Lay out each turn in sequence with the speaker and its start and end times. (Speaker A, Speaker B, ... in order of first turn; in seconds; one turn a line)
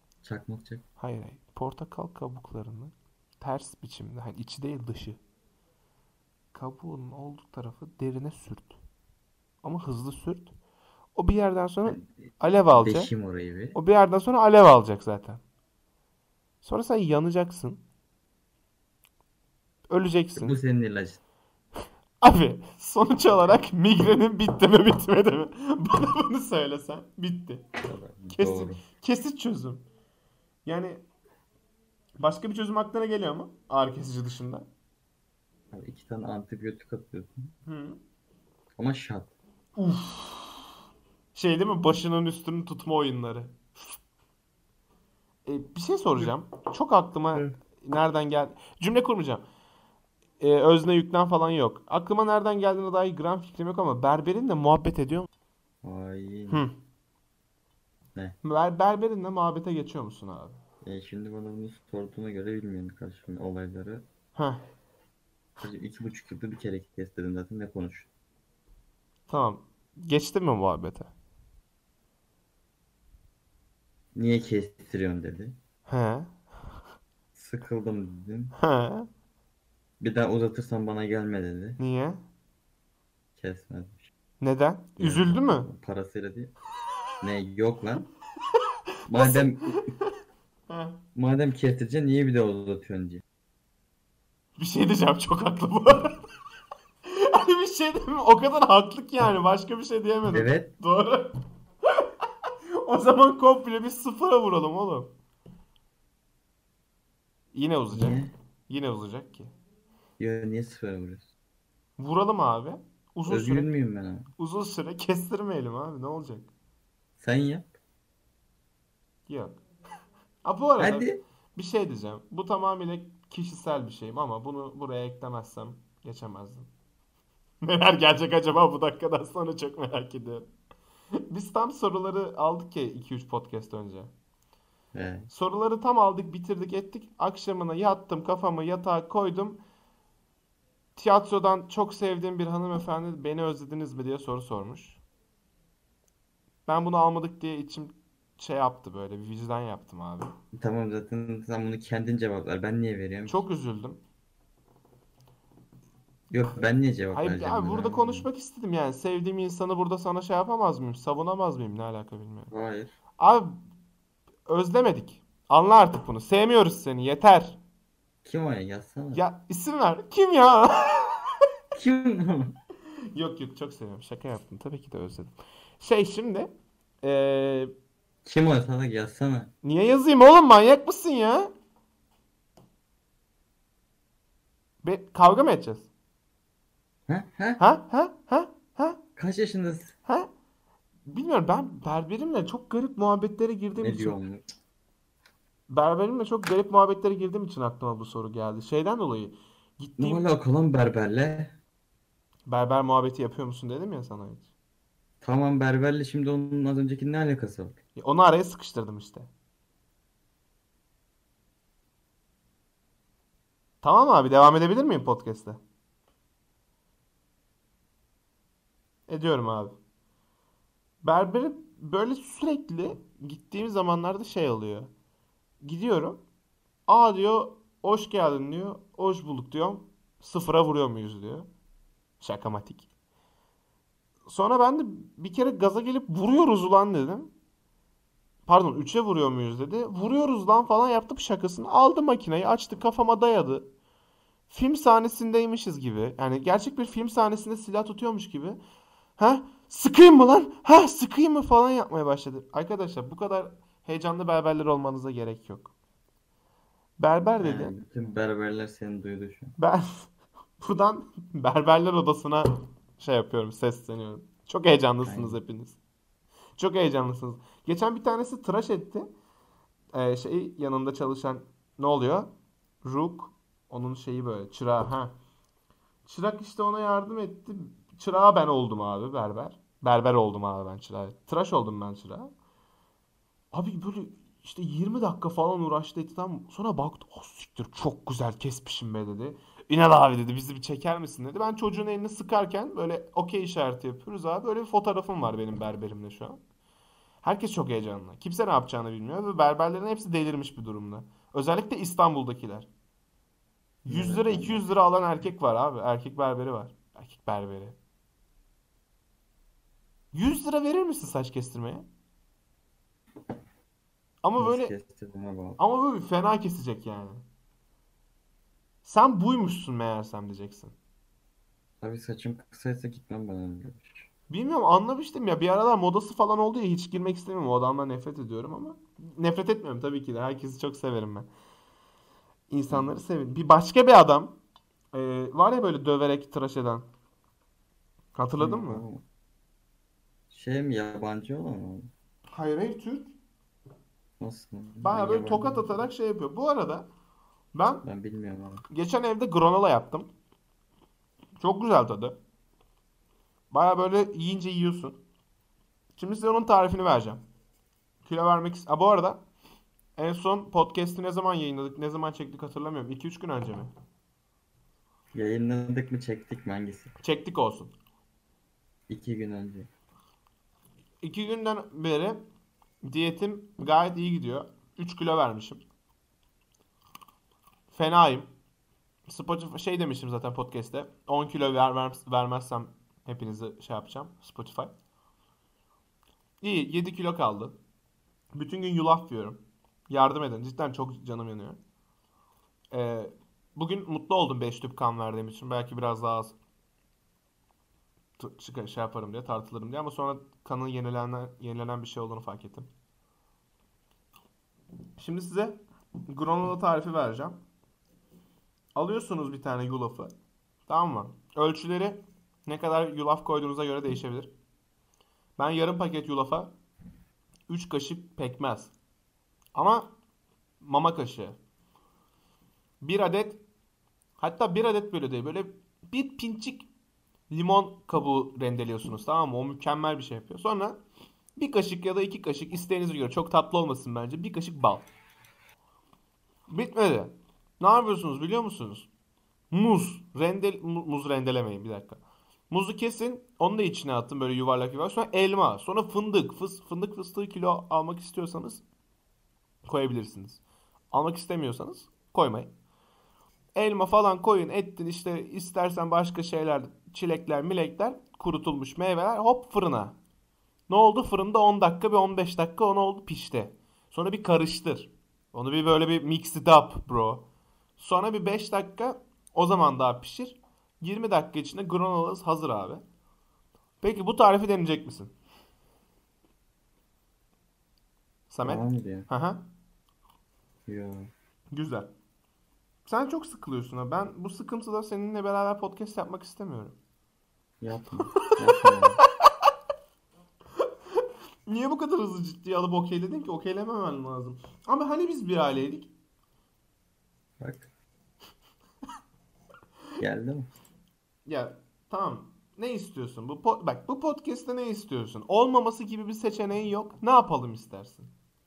Speaker A: 0.2-0.8
Speaker B: 1.0-5.2
Speaker B: 6.5-8.8
Speaker B: 9.6-10.5
Speaker B: 11.2-13.1
Speaker A: 11.9-13.8
Speaker B: 13.7-15.4
Speaker B: 16.6-17.8
Speaker B: 19.9-20.6
Speaker A: 20.4-21.2
Speaker B: 22.2-27.7
Speaker A: 27.9-28.8
Speaker B: 28.3-29.9
Speaker B: 30.7-31.0
Speaker B: 32.2-34.7
Speaker A: 35.7-37.5
Speaker B: 37.7-38.0
Speaker A: 38.8-39.3
Speaker B: 39.8-40.7
Speaker B: 41.4-44.0
Speaker B: 45.5-49.4
Speaker B: 50.4-55.3
Speaker A: 55.8-56.6
Speaker B: 58.4-60.6
Speaker A: 60.8-64.0
Speaker B: 64.4-64.6
Speaker A: 65.6-68.1
Speaker B: 69.3-71.1
Speaker A: 74.2-75.6
Speaker B: 75.9-76.3
Speaker A: 77.3-78.5
Speaker B: 78.6-79.1
Speaker A: 80.0-81.8
Speaker B: 81.8-82.2
Speaker A: 83.4-84.1
Speaker B: 84.4-85.7
Speaker A: 85.0-86.5
Speaker A: 87.2-88.1
Speaker A: 89.1-89.9
Speaker B: 89.1-90.1
Speaker B: 90.7-91.0
Speaker A: 91.2-93.2
Speaker B: 94.6-96.2
Speaker B: 97.0-101.3
Speaker A: 100.3-100.7
Speaker B: 102.8-105.1
Speaker B: 107.5-109.5
Speaker A: 107.9-108.3
Speaker A: 110.2-111.3
Speaker B: 112.0-113.7
Speaker A: 113.3-114.3
Speaker B: 114.4-116.5
Speaker A: 117.2-117.7
Speaker B: 119.3-119.6
Speaker B: 120.4-126.7
Speaker A: 120.8-121.2
Speaker B: 127.6-130.5
Speaker B: 131.3-134.1
Speaker A: 134.9-135.3
Speaker B: 135.3-139.6
Speaker B: 141.0-145.0
Speaker B: 146.7-150.3
Speaker A: 150.5-153.4
Speaker B: 153.3-154.0
Speaker A: 156.3-158.3
Speaker B: 157.1-162.5
Speaker A: 162.5-162.9
Speaker B: 163.2-163.6
Speaker B: 164.5-167.6
Speaker A: 168.2-169.2
Speaker B: 169.1-171.3
Speaker A: 171.7-172.6
Speaker B: 173.1-176.5
Speaker B: 177.0-177.7
Speaker A: 178.2-179.5
Speaker B: 179.6-181.5
Speaker B: 184.8-185.9
Speaker A: 187.1-187.6
Speaker B: 187.6-189.0
Speaker A: 189.2-189.9
Speaker B: 191.1-194.2
Speaker A: 193.8-194.5
Speaker B: 195.7-200.2
Speaker A: 200.0-201.6
Speaker B: 202.5-204.5
Speaker A: 205.2-207.8
Speaker B: 208.0-209.3
Speaker B: 213.8-215.6
Speaker B: 219.1-219.8
Speaker B: 221.0-224.9
Speaker B: 225.6-226.2
Speaker B: 226.9-231.5
Speaker B: 232.2-232.9
Speaker B: 234.3-237.3
Speaker B: 238.5-243.7
Speaker B: 244.5-248.6
Speaker B: 249.2-255.7
Speaker B: 257.0-257.7
Speaker A: 257.4-259.6
Speaker B: 259.6-265.8
Speaker A: 265.0-265.4
Speaker B: 266.6-269.1
Speaker B: 269.9-272.3
Speaker B: 272.8-275.1
Speaker B: 276.1-282.3
Speaker B: 283.5-296.4
Speaker B: 297.2-302.7
Speaker B: 303.9-307.8
Speaker A: 303.9-304.7
Speaker B: 310.1-311.9
Speaker B: 314.2-314.7
Speaker A: 314.4-315.6
Speaker B: 315.6-317.2
Speaker B: 318.8-320.8
Speaker A: 321.8-324.1
Speaker B: 324.3-331.3
Speaker B: 332.5-334.4
Speaker A: 332.7-332.9
Speaker B: 334.9-336.9
Speaker B: 338.2-338.9
Speaker A: 338.4-339.0
Speaker A: 340.3-341.9
Speaker B: 342.3-343.1
Speaker A: 344.2-345.7
Speaker B: 344.8-346.9
Speaker B: 347.5-347.9
Speaker A: 347.8-348.6
Speaker B: 348.7-350.1
Speaker B: 351.4-352.2
Speaker B: 353.5-355.0
Speaker B: 356.0-357.2
Speaker B: 358.1-359.2
Speaker B: 360.0-363.7
Speaker A: 365.1-366.9
Speaker B: 367.0-367.7
Speaker A: 368.9-369.7
Speaker B: 371.0-372.2
Speaker B: 372.8-375.6
Speaker B: 377.7-378.3
Speaker B: 379.1-384.7
Speaker B: 386.4-387.6
Speaker B: 388.3-391.6
Speaker B: 392.7-396.4
Speaker B: 398.2-402.7
Speaker B: 405.0-407.4
Speaker B: 408.8-410.1
Speaker B: 410.7-414.3
Speaker B: 415.4-416.5
Speaker B: 417.5-418.7
Speaker B: 419.6-419.9
Speaker B: 420.6-421.4
Speaker B: 422.8-423.4
Speaker B: 424.2-426.7
Speaker B: 427.3-430.8
Speaker B: 431.4-434.9
Speaker B: 436.5-438.9
Speaker B: 439.5-448.6
Speaker B: 449.7-450.4
Speaker B: 450.9-452.5
Speaker B: 453.6-460.0
Speaker B: 460.7-467.3
Speaker B: 467.8-472.8
Speaker B: 473.8-475.1
Speaker B: 478.3-479.5
Speaker A: 478.4-479.1
Speaker A: 480.7-481.1
Speaker B: 481.5-481.9
Speaker B: 482.9-486.8
Speaker A: 487.6-489.0
Speaker B: 488.2-488.8
Speaker B: 491.5-495.9
Speaker A: 497.4-497.7
Speaker A: 500.0-500.5
Speaker B: 501.3-508.1